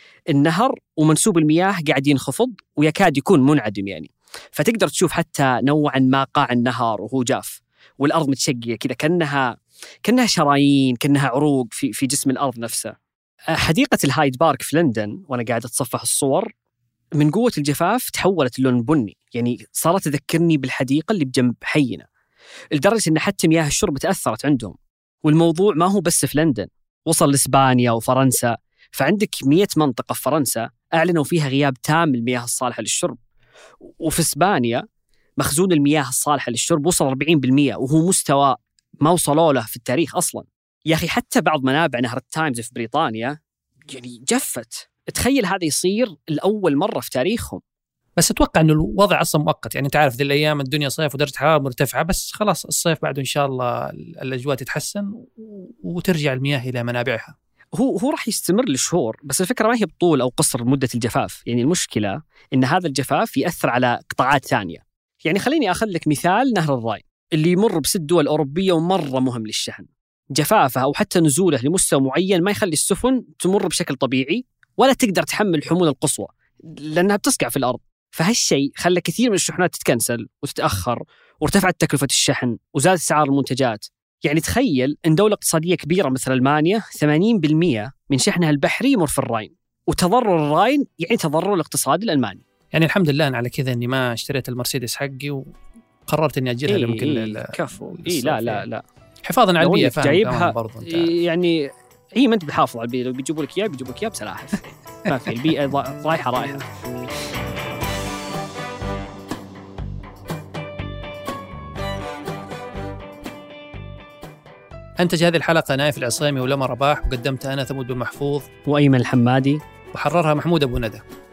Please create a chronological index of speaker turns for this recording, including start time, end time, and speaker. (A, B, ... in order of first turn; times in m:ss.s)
0:00.3-0:09.5 A
0:10.0-0:12.9 A
0:13.5-0:16.5 A
0:17.2-0:22.0 A
0:22.7-0:33.2 A
0:33.9-0:34.8 A
0:35.4-0:43.4 A
0:43.9-0:47.6 A
0:48.2-0:57.3 B
0:57.8-1:32.4 A
1:32.7-1:35.4 B
1:36.1-1:38.6 B
1:36.7-1:38.8 A
1:39.2-1:41.1 B
1:39.6-1:46.6 A
1:55.0-1:58.4 B
1:58.7-1:59.6 A
1:59.9-2:01.0 B